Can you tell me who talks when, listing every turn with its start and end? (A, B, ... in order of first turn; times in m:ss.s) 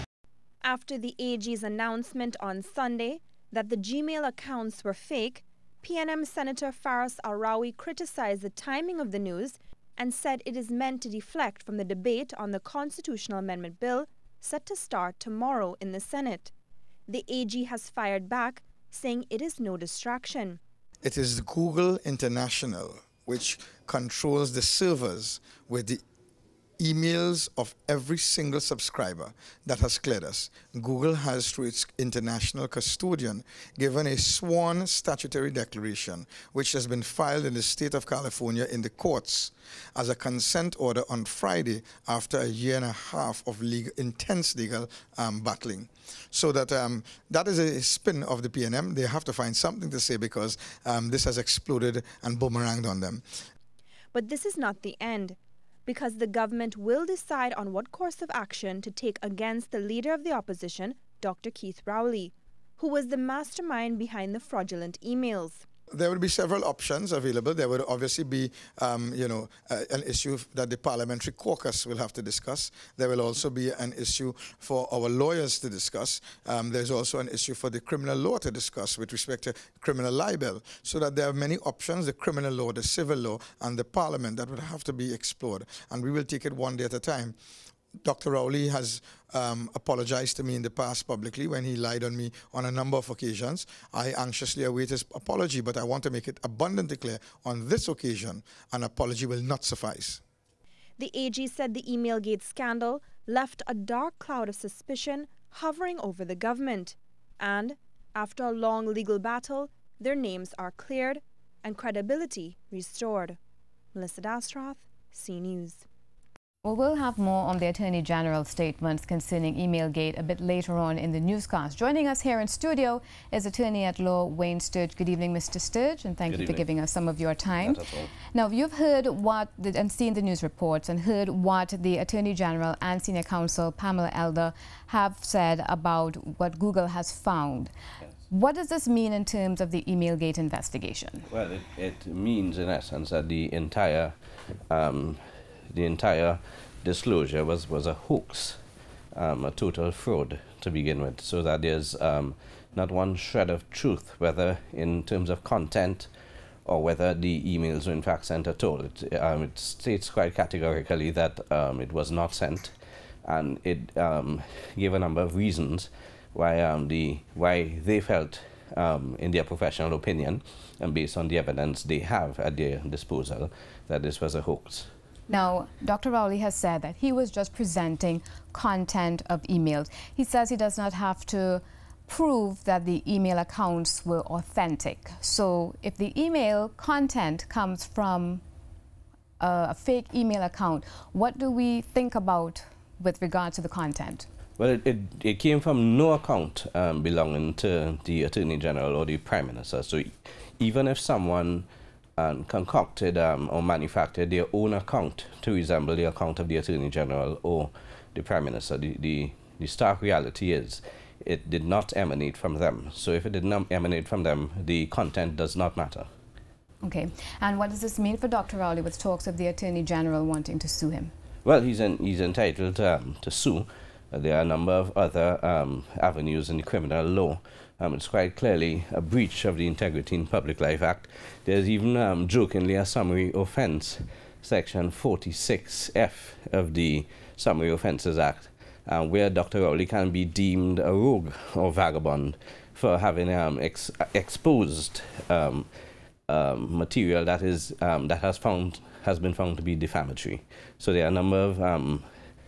0:00.6-0:16.5 A
0:17.1-0:20.6 A
0:21.0-0:26.0 B
0:26.8-0:53.2 B
0:54.1-1:05.6 A
1:05.9-1:27.4 B
1:28.0-1:40.2 B
1:41.0-1:53.4 A
1:53.9-1:55.8 A
1:56.6-2:07.8 C
2:06.3-2:06.6 D
2:07.6-2:08.1 D
2:08.3-2:17.7 C
2:18.3-2:21.3 C
2:21.3-2:24.1 D
2:24.7-2:25.2 D
2:25.7-2:28.6 D
2:29.1-2:36.1 D
2:36.6-2:42.7 D
2:43.2-2:54.9 D
2:55.3-3:08.4 C
3:09.4-3:14.3 C
3:14.6-3:36.1 D
3:36.8-3:41.1 C
3:41.4-4:05.7 D
4:06.3-4:12.0 D